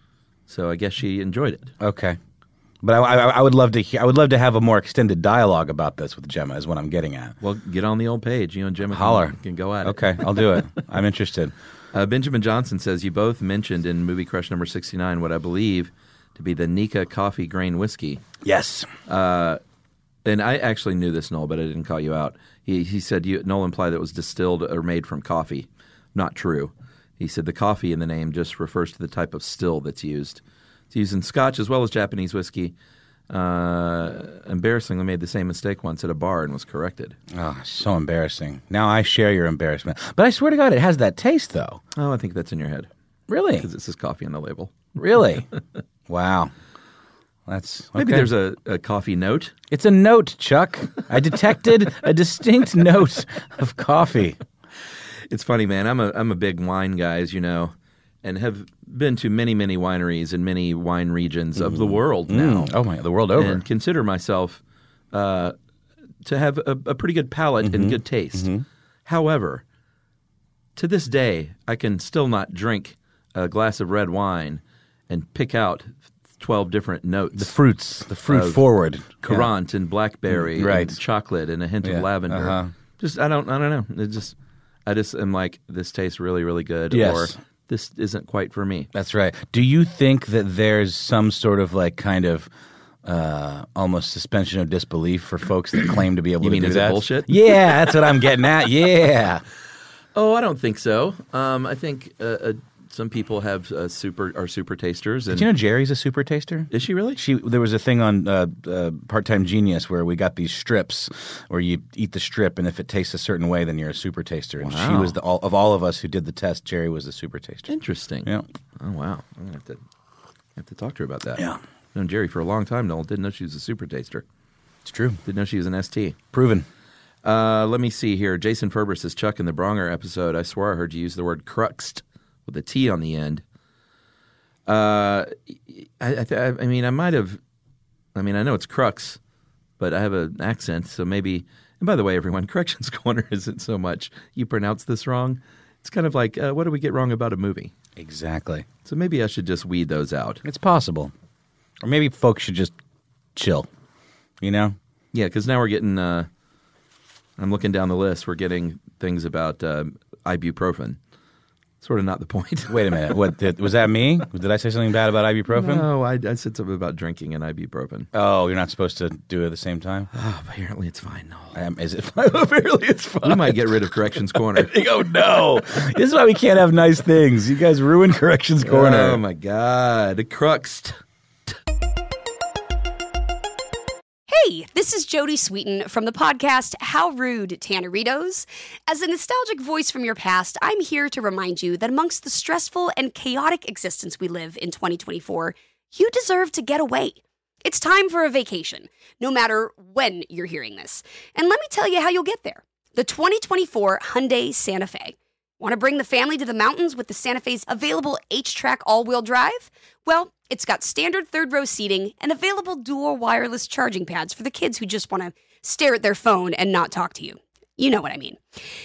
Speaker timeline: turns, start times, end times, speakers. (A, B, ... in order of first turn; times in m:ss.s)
0:00.5-0:01.7 A
0:01.8-0:02.2 B
0:02.8-0:07.4 B
0:07.4-0:10.7 A
0:08.9-0:11.5 B
0:11.9-0:18.2 A
0:18.4-0:18.9 B
0:19.1-0:19.6 A
0:20.2-0:32.8 A
0:33.3-0:37.2 A
0:37.3-0:41.8 B
0:42.0-0:42.9 A
0:43.3-0:43.7 B
0:43.6-0:44.9 A
0:45.0-0:45.5 B
0:46.1-0:46.5 B
0:47.5-0:48.3 B
0:48.0-0:49.6 A
0:49.7-0:54.4 B
0:55.3-1:02.8 A
1:01.6-1:03.6 B
1:03.3-1:04.6 A
1:05.1-1:05.5 A
1:06.2-1:08.5 A
1:07.6-1:08.6 B
1:09.1-1:09.6 A
1:10.8-1:17.6 A
1:17.4-1:19.5 B
1:18.2-1:18.6 A
1:19.2-1:24.4 A
1:20.3-1:21.0 B
1:21.8-1:22.7 B
1:24.9-1:28.9 A
1:26.9-1:27.4 B
1:28.9-1:32.5 B
1:33.0-1:39.4 B
1:36.4-1:38.3 A
1:40.2-1:45.5 A
1:45.3-1:57.7 B
1:46.7-1:47.2 A
1:54.6-1:55.2 A
1:57.7-1:59.8 A
2:00.6-2:01.4 A
2:02.0-2:04.2 A
2:04.8-2:05.2 B
2:05.3-2:06.2 A
2:06.3-2:06.7 B
2:07.2-2:13.4 A
2:14.7-2:17.4 A
2:18.2-2:19.2 A
2:19.8-2:27.7 A
2:28.0-2:28.7 B
2:28.8-2:30.4 A
2:30.4-2:31.1 B
2:31.8-2:32.7 B
2:33.4-2:33.7 B
2:34.4-2:34.8 B
2:35.1-2:36.3 A
2:37.4-2:41.0 A
2:41.8-2:43.2 A
2:42.7-2:45.9 B
2:45.5-2:48.1 A
2:48.1-2:50.1 B
2:50.1-2:51.6 A
2:51.5-2:59.2 B
2:53.2-2:54.7 A
2:58.6-3:01.0 A
3:04.3-3:38.4 C